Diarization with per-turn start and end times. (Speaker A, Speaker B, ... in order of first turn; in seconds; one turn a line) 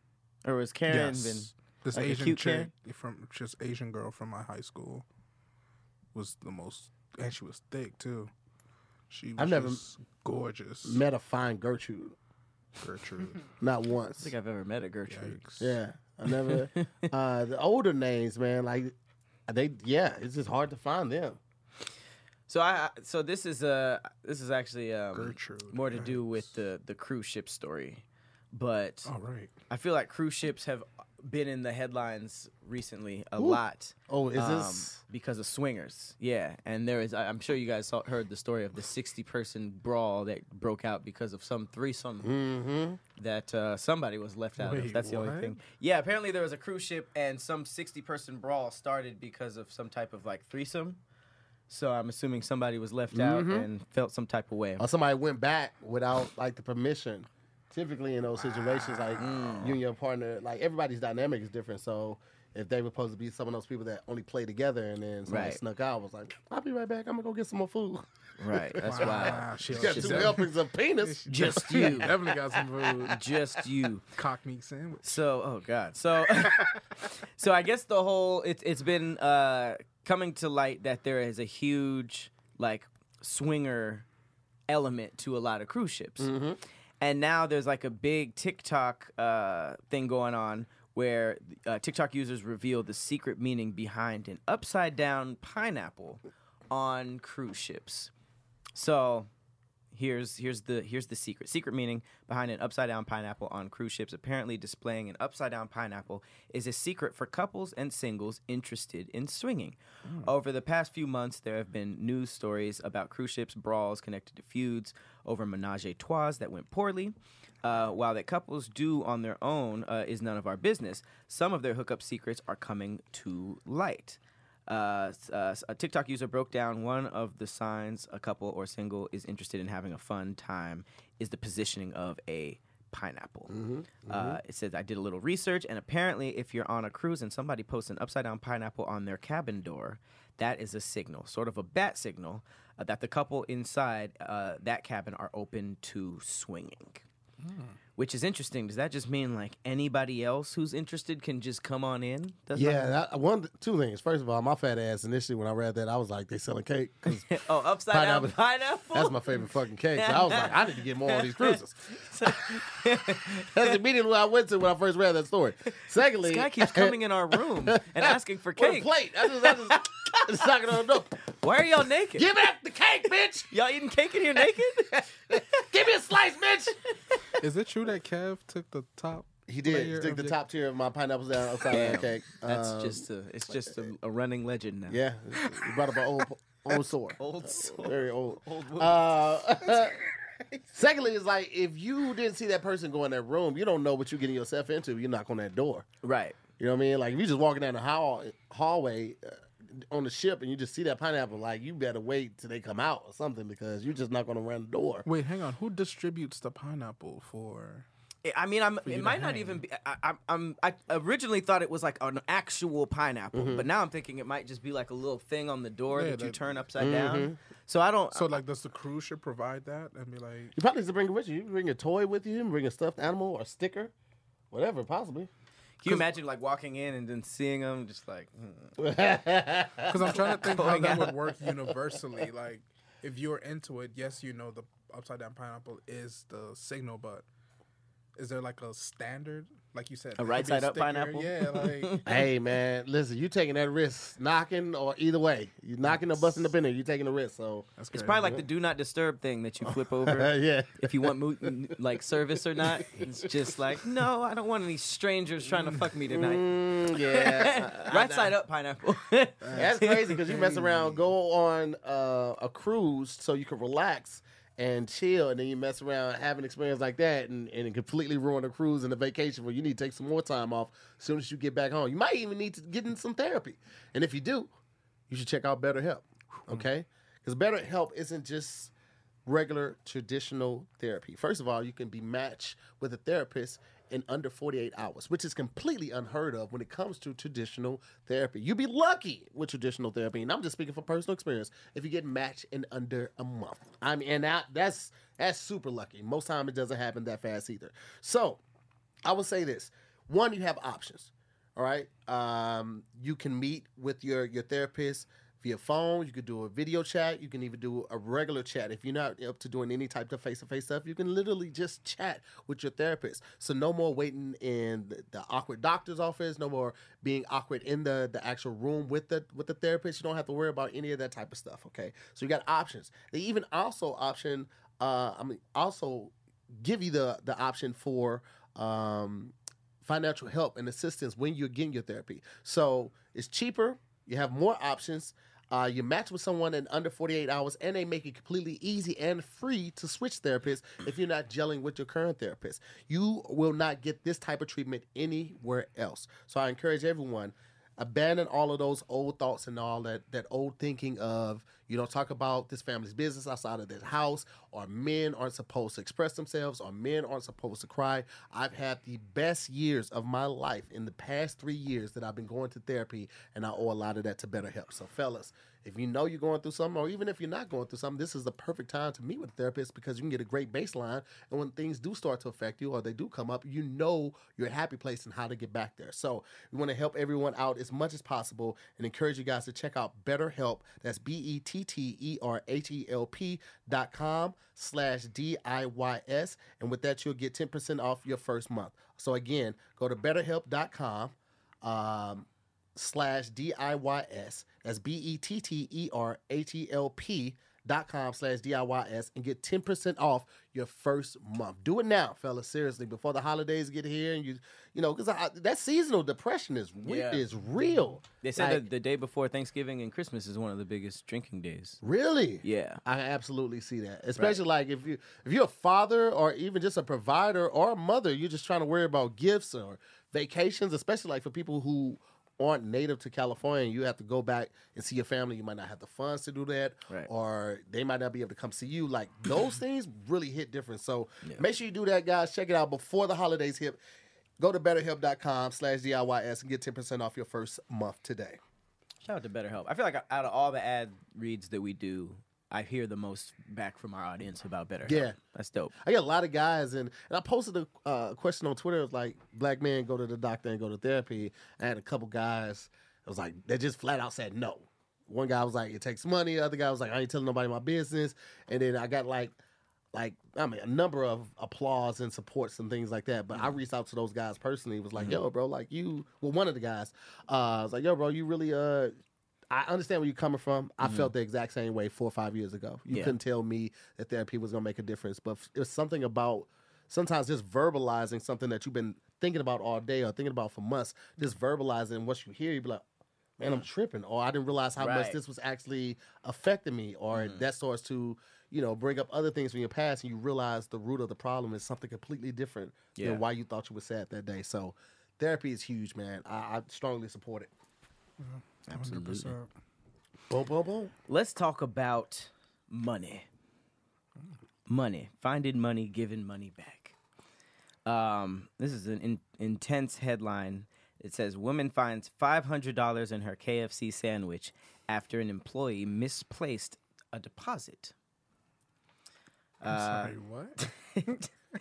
Speaker A: 0.5-2.7
Speaker B: 0.9-5.0
Speaker B: 6.1-8.3
Speaker B: 9.1-11.0
Speaker C: 9.4-9.8
Speaker C: 10.8-12.2
Speaker B: 12.8-13.4
Speaker C: 13.6-14.3
Speaker A: 14.2-15.5
Speaker B: 15.1-15.8
Speaker C: 15.6-18.9
Speaker A: 16.3-17.1
Speaker C: 19.5-21.4
Speaker A: 22.5-29.1
Speaker B: 25.1-26.5
Speaker B: 29.1-29.5
Speaker A: 29.7-42.3
Speaker C: 33.4-35.0
Speaker C: 42.2-43.0
Speaker A: 43.2-51.0
Speaker B: 44.6-45.6
Speaker A: 51.7-54.8
Speaker C: 53.1-53.7
Speaker C: 54.8-72.3
Speaker A: 59.2-59.8
Speaker A: 65.3-65.6
Speaker A: 68.4-70.4
Speaker B: 68.8-73.2
Speaker A: 71.3-72.2
Speaker A: 73.0-74.1
Speaker B: 74.1-75.2
Speaker A: 75.0-84.1
Speaker B: 76.4-76.8
Speaker A: 84.7-86.3
Speaker C: 86.2-86.6
Speaker A: 87.0-98.1
Speaker A: 98.8-99.3
Speaker A: 99.9-133.5
Speaker B: 110.0-110.3
Speaker C: 133.5-134.4
Speaker A: 134.1-147.0
Speaker B: 147.4-147.8
Speaker A: 148.0-152.9
Speaker C: 152.6-158.4
Speaker A: 157.1-159.4
Speaker C: 158.9-162.5
Speaker A: 160.0-163.8
Speaker C: 163.4-167.0
Speaker A: 166.2-170.5
Speaker C: 167.6-171.2
Speaker A: 171.2-172.3
Speaker C: 172.2-173.5
Speaker A: 173.5-175.4
Speaker C: 174.9-176.8
Speaker B: 177.4-180.4
Speaker C: 179.5-183.9
Speaker A: 181.7-185.0
Speaker C: 184.9-190.0
Speaker B: 185.4-185.7
Speaker A: 187.2-189.0
Speaker C: 190.7-195.9
Speaker A: 196.0-196.4
Speaker C: 196.6-205.1
Speaker B: 205.1-207.9
Speaker A: 208.2-218.4
Speaker B: 208.8-209.6
Speaker C: 213.3-213.7
Speaker B: 215.9-216.7
Speaker C: 216.8-217.4
Speaker B: 218.1-220.5
Speaker C: 220.6-223.9
Speaker C: 224.5-225.3
Speaker A: 225.8-228.8
Speaker C: 228.8-230.2
Speaker B: 229.9-237.3
Speaker A: 230.1-231.2
Speaker B: 238.2-242.0
Speaker A: 240.2-242.3
Speaker C: 242.1-248.4
Speaker B: 245.8-246.5
Speaker B: 247.8-248.4
Speaker A: 247.9-260.2
Speaker C: 249.7-251.5
Speaker C: 252.6-253.3
Speaker B: 255.6-255.8
Speaker C: 256.1-258.3
Speaker B: 259.4-261.0
Speaker C: 259.5-274.5
Speaker C: 275.1-278.7
Speaker C: 279.3-298.4
Speaker C: 299.1-408.7
Speaker A: 406.8-407.2
Speaker A: 408.2-411.8
Speaker C: 411.8-433.8
Speaker A: 412.4-412.8
Speaker C: 434.4-438.4
Speaker A: 439.0-445.7
Speaker C: 444.9-445.2
Speaker C: 445.8-459.4
Speaker C: 459.9-468.9
Speaker C: 469.5-482.8
Speaker A: 470.8-471.1
Speaker A: 472.9-473.2
Speaker C: 483.4-497.5
Speaker A: 484.8-485.2
Speaker A: 487.1-487.4
Speaker A: 493.0-493.2
Speaker B: 498.2-499.5
Speaker A: 498.7-499.4
Speaker C: 500.3-500.9
Speaker A: 501.1-503.3
Speaker A: 504.7-507.0
Speaker A: 507.9-517.9
Speaker A: 519.6-521.3
Speaker B: 519.7-520.6